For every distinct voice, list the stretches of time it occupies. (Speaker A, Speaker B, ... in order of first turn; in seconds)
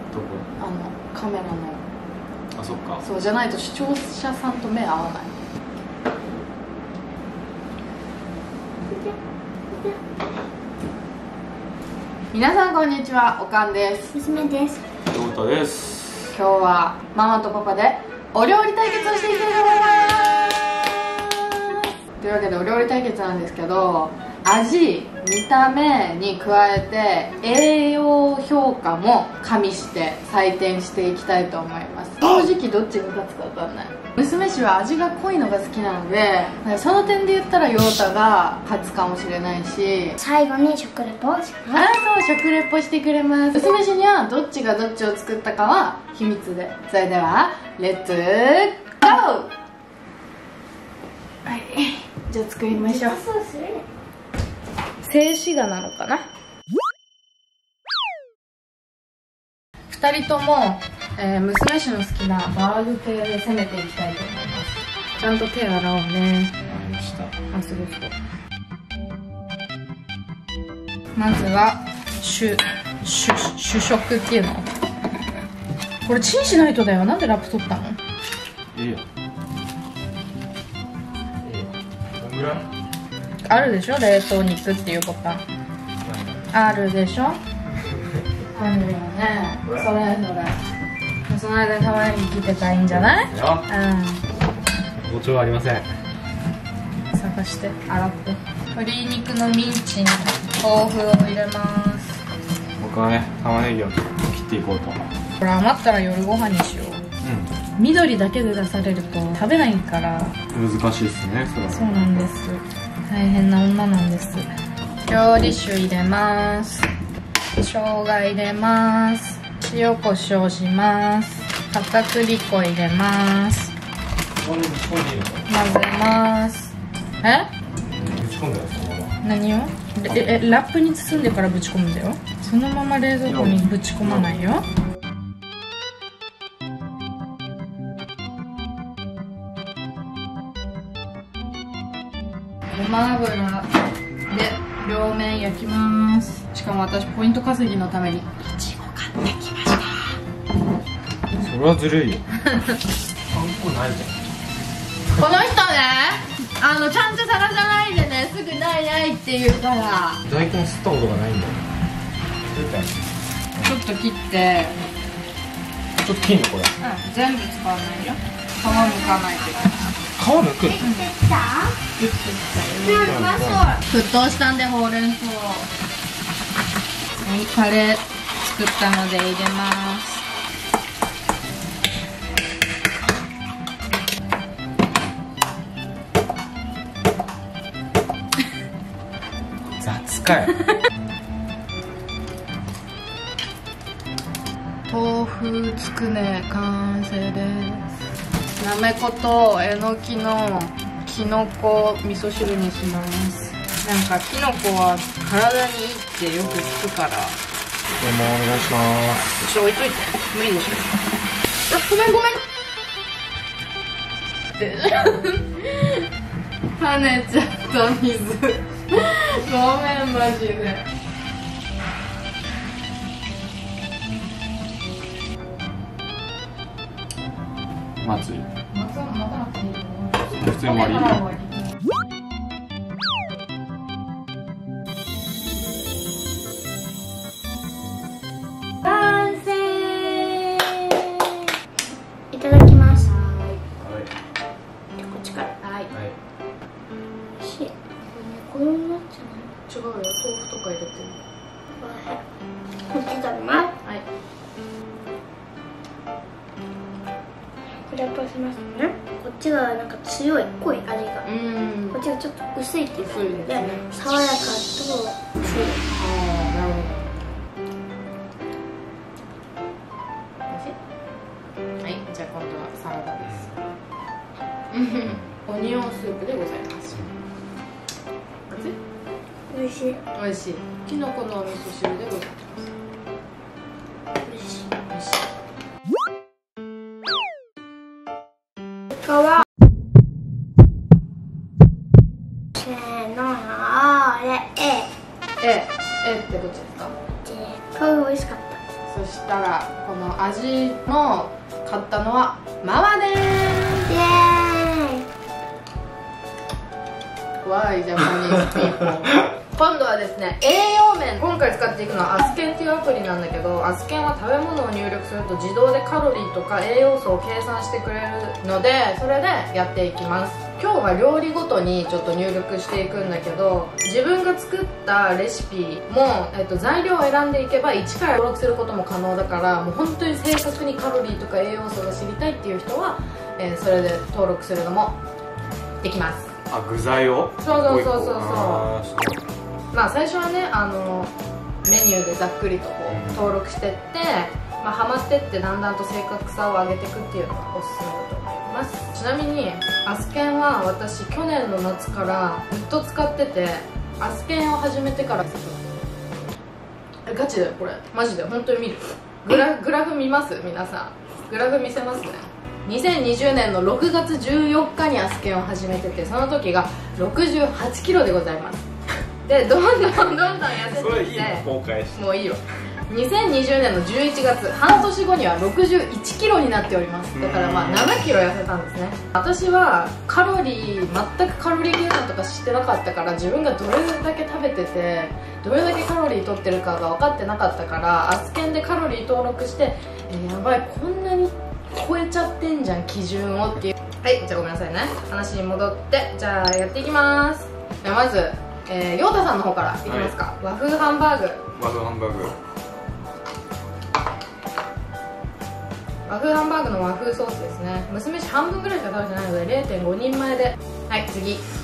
Speaker A: 0.1-0.5, 2.6-3.0, 15.1-16.4, 66.7-67.3, 78.7-79.0, 81.4-82.7, 86.0-86.4, 92.9-93.7, 95.1-95.9, 102.8-105.0, 107.2-107.5, 110.5-112.3, 124.4-125.4, 128.0-129.1, 133.2-134.3, 151.4-152.2, 153.3-154.2, 160.2-161.6, 162.5-162.9, 166.0-166.7, 170.2-170.8, 173.1-173.7, 189.8-190.5, 208.0-209.4, 228.0-228.5, 230.3-231.2, 243.8-244.1, 273.2-273.5, 336.5-339.2, 342.9-343.3, 370.7-372.0, 377.1-378.0, 399.9-400.1, 401.6-402.4
Speaker B: 0.6-1.8, 3.0-5.4, 12.3-14.2, 16.3-40.2, 41.7-49.5, 51.5-53.2, 55.0-56.2, 59.9-66.5, 67.5-68.1, 71.2-74.7, 76.0-78.0, 83.5-85.4, 86.5-87.4, 88.5-90.6, 91.3-94.2, 97.1-102.2, 105.4-107.1, 107.8-110.4, 111.7-114.5, 115.1-116.9, 117.6-123.7, 125.5-127.5, 129.2-134.6, 142.7-143.7, 144.3-150.2, 152.4-152.8, 155.2-160.2, 163.6-164.8, 166.8-169.9, 170.8-171.1, 172.0-173.3, 173.9-175.7, 177.2-180.2, 190.5-190.8, 194.9-197.9, 198.6-207.4, 209.4-210.9, 211.7-212.4, 214.6-216.1, 216.8-220.8, 228.7-231.7, 243.0-243.6, 245.6-245.9, 249.7-251.2, 261.2-262.0, 263.0-263.9, 265.9-267.3, 270.5-270.8, 271.8-273.5, 274.7-277.0, 278.5-278.8, 280.1-282.7, 284.9-285.2, 295.4-296.9, 298.9-303.8, 307.4-335.0, 335.8-336.3, 337.4-338.7, 339.7-341.1, 341.6-355.6, 357.1-368.7, 369.2-401.4, 406.1-411.4
Speaker C: 14.1-14.8, 40.2-41.9, 52.7-53.9, 168.6-169.6, 170.7-171.8, 172.8-173.8, 238.8-241.5, 242.3-243.1, 245.0-245.5, 247.4-249.5, 251.8-252.2, 252.9-253.7, 257.9-261.3, 261.9-265.8, 279.5-280.0, 284.2-284.7, 289.0-289.4, 292.6-294.9, 297.2-298.6, 303.8-305.1